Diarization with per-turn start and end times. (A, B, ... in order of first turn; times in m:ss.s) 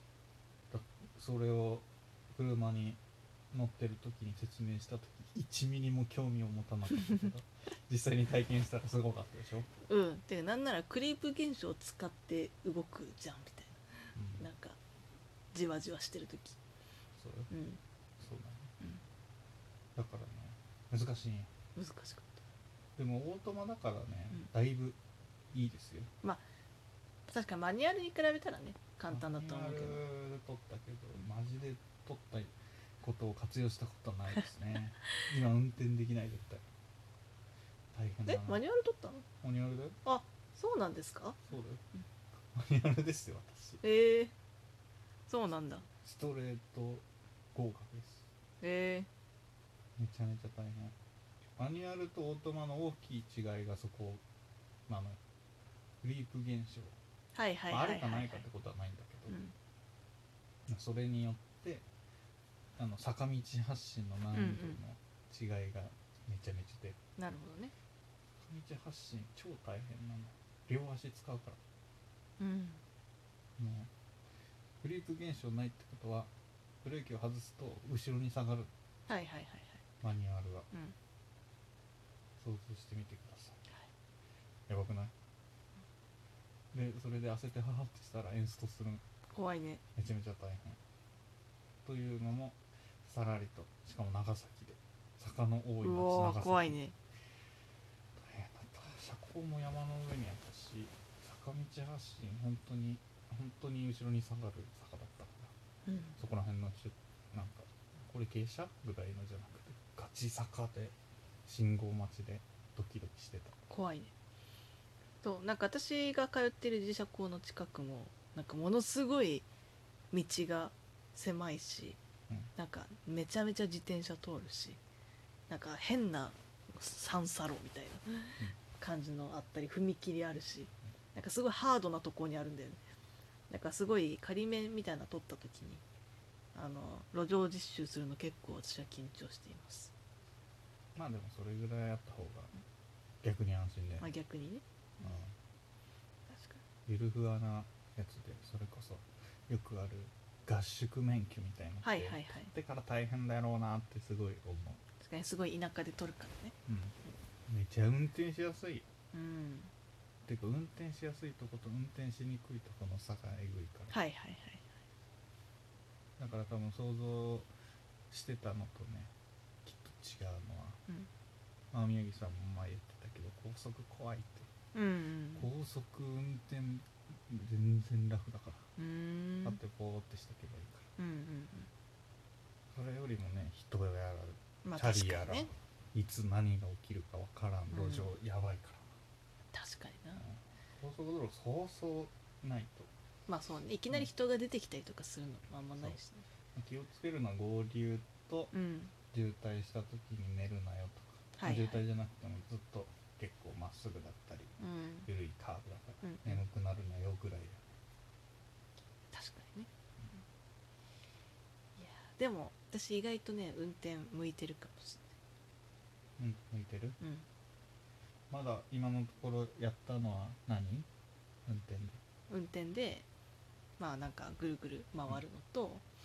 0:00.7-0:03.0 A
0:03.5-0:09.7 A
0:09.8-0:13.8 B
0:14.1-0:14.5 A
0:14.4-0:14.8 B
0:15.5-0:16.6 B
0:17.2-0:17.5 A
0:17.5-0:17.8 B
0:18.2-0:18.7 A
0:20.0-0:21.5 A
0:21.8-0:22.4 B
0:23.0-0:25.0 A
0:25.5-0:26.1 A
0:27.3-0:30.0 B
0:29.1-0:36.6 A
0:37.9-0:38.6 A
0:38.2-0:39.2 B
0:39.4-0:40.0 A
0:40.0-0:41.4 B
0:41.5-0:41.8 A
0:42.5-0:43.8 A
0:43.8-0:44.3 B
0:45.3-0:45.9 B
0:46.0-0:48.3 A
0:48.6-0:49.1 B
0:50.0-0:50.9 A
0:51.6-0:54.2 A
0:54.9-0:55.2 A
0:56.0-0:56.9 A
0:57.3-0:58.4 B
0:57.7-0:59.4 A
0:59.3-0:59.5 B
1:00.7-1:01.8 A
1:02.8-1:07.0 A
1:04.3-1:04.8 B
1:07.2-1:07.7 B
1:08.4-1:11.6 A
1:12.4-1:12.8 B
1:13.6-1:13.9 A
1:14.8-1:16.3 A
1:16.8-1:18.7 A
1:19.1-1:19.8 B
1:20.0-1:20.7 A
1:22.4-1:23.6 A
1:24.7-1:25.1 A
1:26.7-1:29.0 A
1:29.3-1:29.8 B
1:30.0-1:30.8 A
1:31.8-1:36.8 A
1:35.8-1:36.9 B
1:38.2-1:45.5 A
1:45.8-1:46.2 B
1:46.2-1:50.9 A
1:51.4-1:53.6 A
1:53.7-1:54.1 B
1:55.2-1:59.5 B
2:00.1-2:02.0 B
2:02.6-2:04.8 B
2:05.5-2:12.8 B
2:13.5-2:15.8 B
2:16.5-2:19.9 B
2:20.9-2:22.5 A
2:23.2-2:24.1 A
2:24.0-2:25.2 B
2:25.0-2:25.3 A
2:26.3-2:26.6 B
2:26.9-2:34.8 A
2:31.8-2:32.5 B
2:35.0-2:36.5 B
2:36.6-2:37.0 A
2:37.5-2:38.9 A
2:39.1-2:39.7 B
2:40.2-2:43.9 A
2:43.9-2:44.7 B
2:46.2-2:47.5 A
2:48.1-2:49.1 A
2:49.6-2:50.8 A
2:51.7-2:54.5 A
2:54.7-2:55.5 B
2:55.4-2:58.7 A
2:58.8-2:59.6 B
2:59.4-3:00.9 A
3:01.0-3:01.7 B
3:02.7-3:08.9 A
3:04.6-3:05.5 B
3:07.7-3:08.1 B
3:09.5-3:10.2 B
3:10.2-3:12.9 A
3:13.3-3:16.2 B
3:16.5-3:18.5 A
3:18.5-3:18.9 B
3:19.1-3:27.6 A
3:21.4-3:21.8 B
3:24.6-3:25.1 B
3:26.0-3:26.4 B
3:29.1-3:29.7 B
3:31.8-3:35.1 B
3:36.2-3:37.0 A
3:37.0-3:37.2 B
3:38.3-3:40.9 A
3:41.4-3:42.0 A
3:42.3-3:43.1 B
3:43.8-3:45.8 B